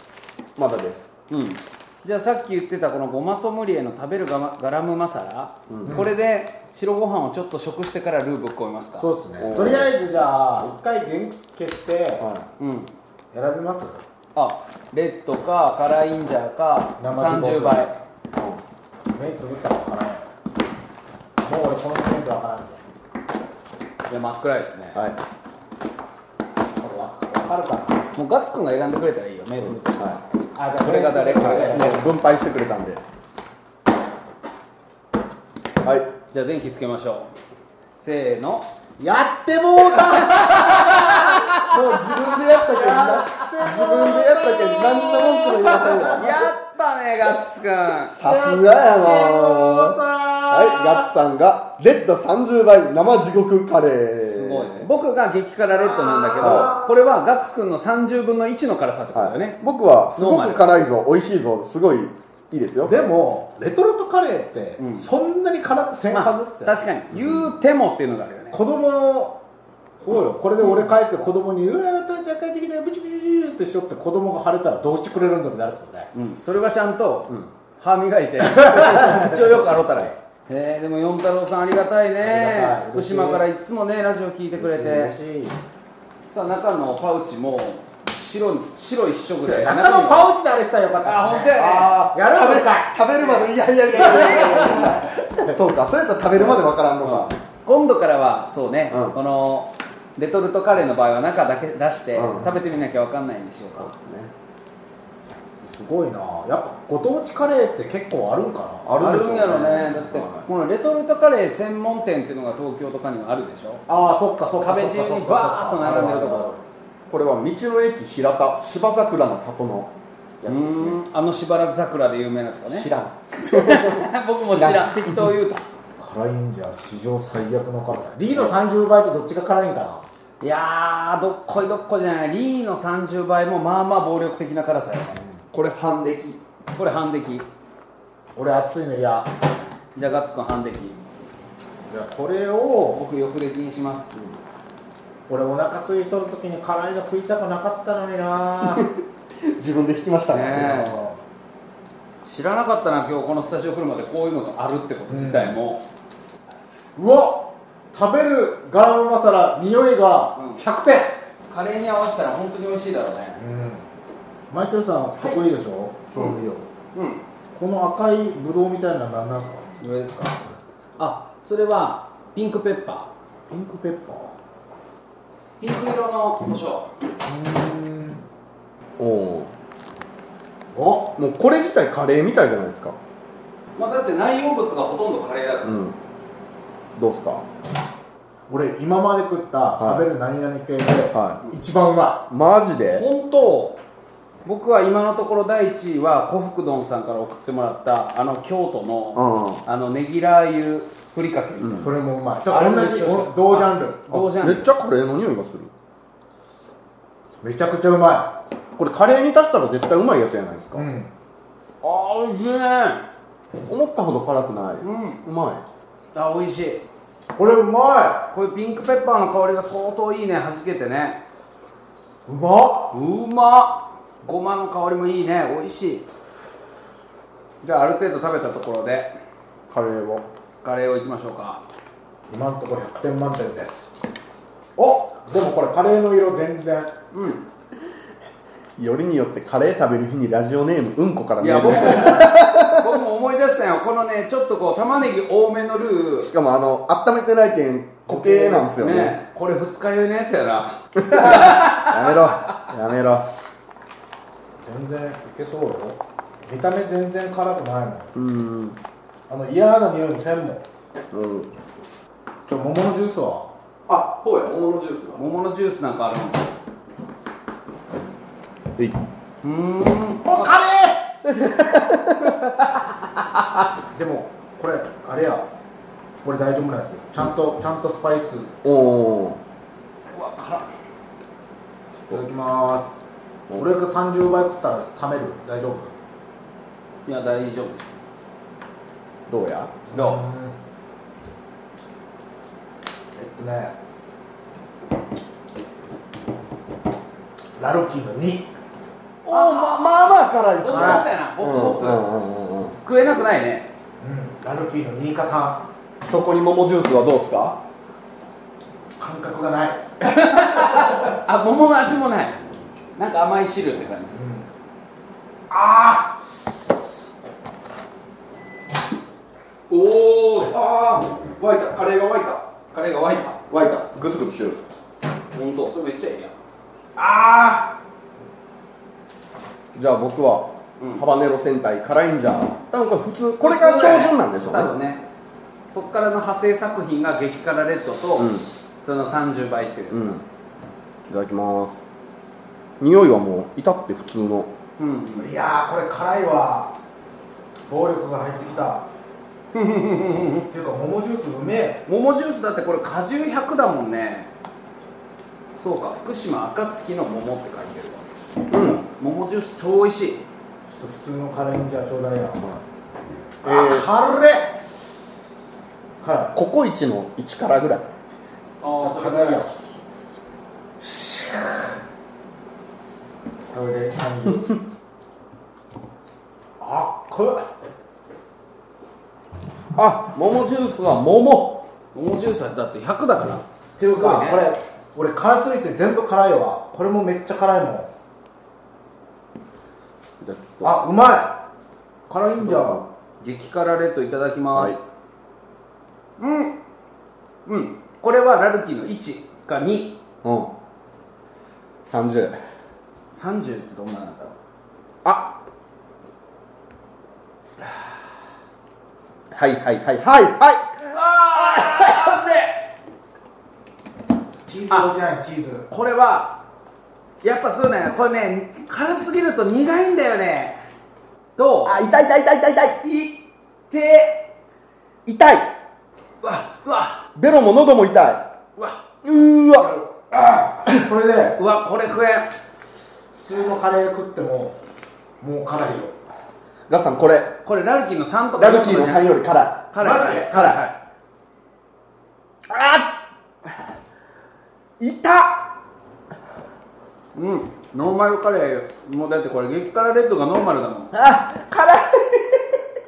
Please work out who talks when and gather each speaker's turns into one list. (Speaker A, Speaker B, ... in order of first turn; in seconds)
Speaker A: 0.6-1.1, 5.7-6.1, 9.4-9.9, 12.2-12.5, 18.3-18.6, 29.6-30.2, 31.4-33.0, 35.8-36.1, 41.1-46.3, 48.1-54.9, 56.4-56.8, 59.1-63.0, 67.1-67.5, 91.6-97.4, 98.9-99.2, 102.2-102.5, 103.8-104.3, 108.8-110.5, 117.1-121.0, 122.7-125.3, 128.3-128.6, 135.5-136.4, 148.6-150.9, 179.0-179.5, 181.2-183.0, 185.6-186.0, 187.0-187.4, 189.8-190.1, 191.1-191.4, 192.3-193.1, 199.2-199.6, 201.6-201.9, 204.1-205.7, 208.8-210.9, 213.7-215.6, 229.7-230.3, 238.8-242.9, 246.3-249.2, 251.0-253.3, 258.1-258.8, 261.1-261.5, 263.9-265.2, 271.3-272.4, 278.6-279.4, 289.3-289.8, 299.2-302.8, 306.0-307.6, 315.5-316.1, 320.4-322.5, 323.5-324.6, 327.0-327.7, 329.8-334.7, 338.2-338.5, 339.9-340.2, 341.1-341.9, 342.8-344.5, 358.5-358.8, 363.4-363.9, 366.4-367.9, 379.8-381.7, 390.2-390.8, 392.4-392.8, 400.2-400.5, 401.9-402.4, 405.0-405.4, 409.3-410.7, 421.6-422.8, 425.1-425.5, 427.2-428.3, 429.0-429.8, 436.7-437.4, 438.4-440.6, 442.5-443.0, 444.8-445.6, 450.9-452.6
Speaker B: 1.3-9.1, 12.6-12.9, 14.3-18.0, 24.1-25.0, 28.1-30.2, 30.8-32.0, 36.3-37.3, 38.0-38.7, 46.1-48.1, 54.2-59.6, 60.2-60.6, 64.8-65.1, 66.1-68.6, 76.1-85.2, 86.3-90.3, 91.0-92.0, 93.2-94.8, 97.0-103.9, 109.0-113.8, 114.6-116.6, 120.5-122.9, 123.4-125.7, 130.4-135.3, 136.7-137.5, 139.9-141.0, 142.9-144.1, 150.3-150.9, 152.2-155.8, 160.4-160.6, 161.5-163.4, 166.9-167.2, 169.8-170.4, 171.0-173.1, 175.6-176.9, 183.8-185.8, 192.9-193.8, 194.4-201.9, 202.5-204.7, 211.8-213.1, 214.8-215.2, 216.2-216.8, 218.3-221.2, 222.9-226.1, 227.6-229.1, 230.6-231.6, 237.1-237.4, 241.4-246.3, 248.1-252.5, 265.2-266.5, 269.4-270.5, 280.1-280.7, 287.1-287.9, 289.9-290.2, 299.3-299.9, 300.6-302.1, 302.8-303.7, 310.0-312.4, 313.0-314.2, 319.7-320.5, 322.7-323.4, 325.3-326.4, 333.4-335.1, 335.7-340.2, 344.8-345.3, 349.5-350.5, 351.9-354.3, 355.6-360.2, 368.6-369.4, 381.9-384.4, 393.2-394.8, 396.2-396.6, 397.5-400.0, 403.1-404.4, 410.9-412.7, 415.7-416.4, 417.2-420.6, 421.4-421.9, 422.8-424.3, 426.2-427.1, 428.6-428.8, 431.4-432.3, 437.4-439.1, 439.7-440.8, 447.1-450.9
Speaker C: 5.8-6.1, 8.9-12.3, 13.3-14.0, 17.0-17.8, 19.1-20.2, 21.4-22.8, 26.8-28.1, 30.6-32.1, 39.0-46.5, 48.2-51.1, 55.8-57.0, 62.9-66.8, 68.5-69.4, 70.0-76.1, 78.5-79.4, 82.2-83.5, 84.6-85.6, 89.5-93.0, 93.9-95.5, 105.6-108.9, 113.9-116.6, 126.0-130.0, 138.3-139.3, 141.9-143.0, 145.3-148.9, 150.6-151.2, 155.1-155.6, 157.0-161.2, 163.4-163.8, 164.5-166.7, 167.5-169.7, 173.5-174.3, 177.2-178.2, 180.7-181.1, 188.5-192.3, 201.8-204.1, 207.4-208.3, 210.8-211.1, 217.3-218.3, 222.2-223.0, 232.3-233.8, 234.8-236.9, 254.6-258.1, 259.3-260.6, 262.5-263.5, 270.2-271.0, 273.9-275.4, 276.2-278.5, 282.1-282.9, 283.6-285.9, 289.9-290.6, 293.2-293.8, 297.6-298.5, 300.7-301.1, 304.0-305.6, 309.0-309.8, 314.1-314.5, 345.2-346.7, 347.7-348.9, 350.5-351.8, 360.7-362.4, 363.4-364.6, 366.0-366.4, 368.8-369.6, 370.8-371.8, 373.5-374.6, 376.6-377.5, 383.8-387.9, 390.6-391.4, 392.1-392.8, 414.5-415.7, 429.6-431.4, 433.1-434.6, 435.2-435.9, 439.8-440.5